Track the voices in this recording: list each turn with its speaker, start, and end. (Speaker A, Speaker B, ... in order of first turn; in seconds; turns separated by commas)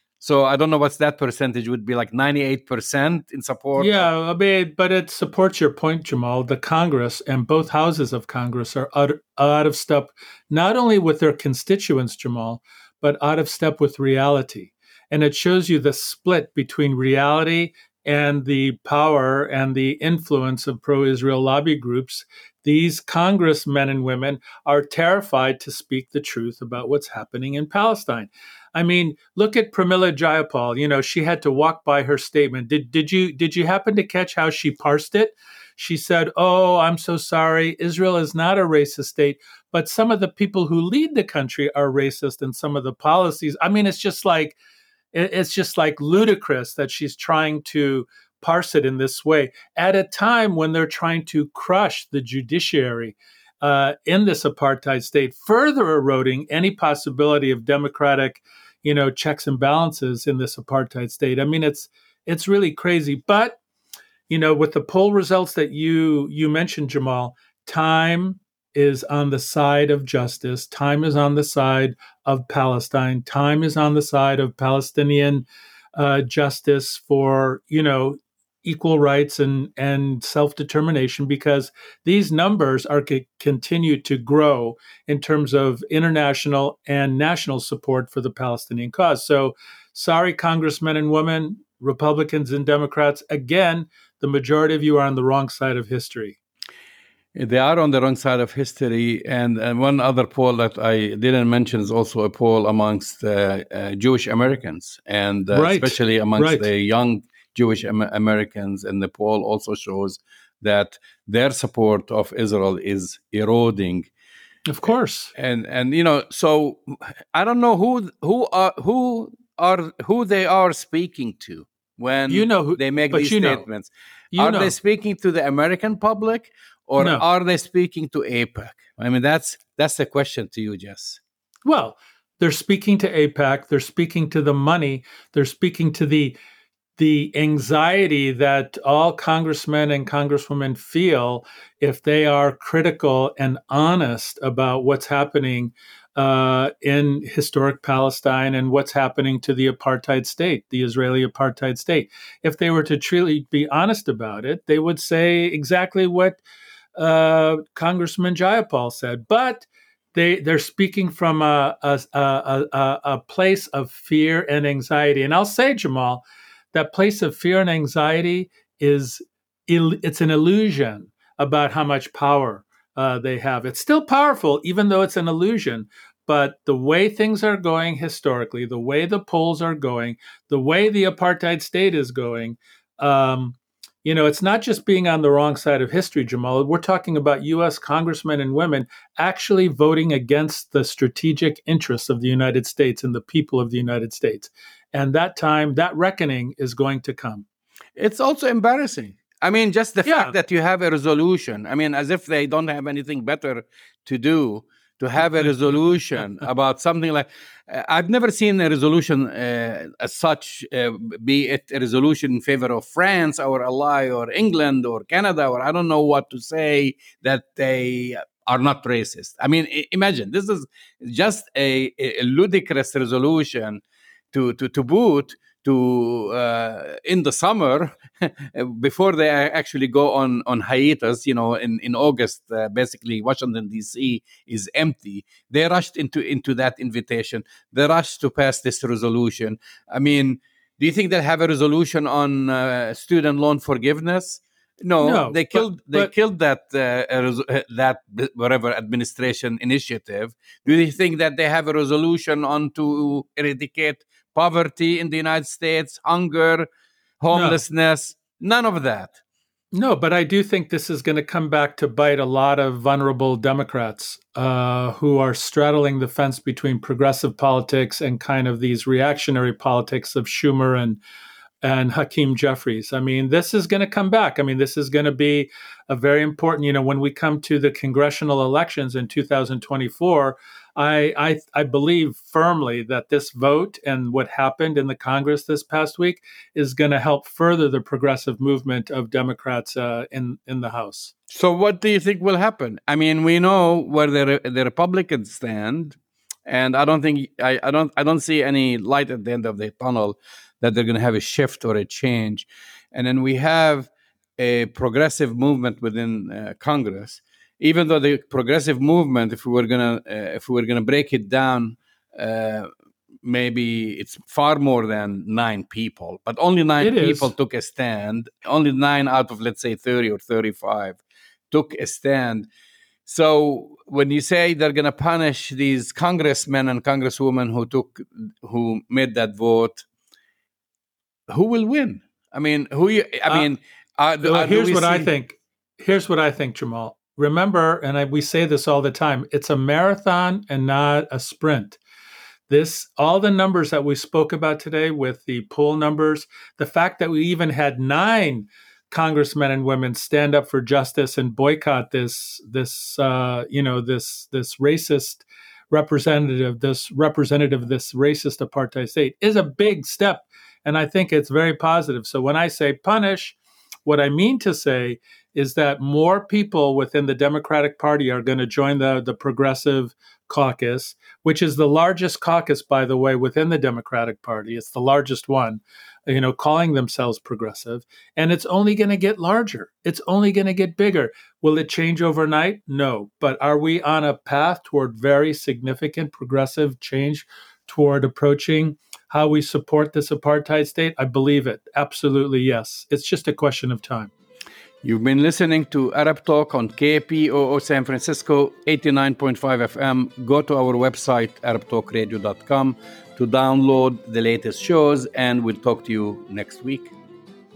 Speaker A: 0.2-4.1, Speaker B: 3.8-44.6, Speaker B: 45.1-63.6, Speaker B: 64.3-96.4, Speaker A: 97.3-114.1, Speaker B: 105.5-106.7, Speaker B: 114.7-115.3, Speaker A: 115.3-131.2, Speaker B: 122.3-123.6, Speaker B: 124.3-124.8, Speaker B: 127.0-127.2, Speaker B: 131.7-136.4, Speaker B: 137.0-156.4, Speaker B: 157.0-197.4, Speaker A: 198.0-223.8, Speaker B: 200.1-200.3, Speaker A: 224.3-256.7, Speaker B: 245.0-246.1, Speaker A: 257.2-259.2, Speaker B: 257.3-257.6, Speaker B: 259.7-271.0, Speaker B: 271.6-291.1, Speaker A: 291.3-312.7, Speaker A: 313.2-321.0, Speaker B: 316.8-317.3, Speaker A: 321.5-322.5, Speaker A: 323.1-329.9, Speaker A: 331.3-335.1, Speaker B: 334.2-341.8, Speaker B: 342.5-394.1, Speaker A: 394.8-406.9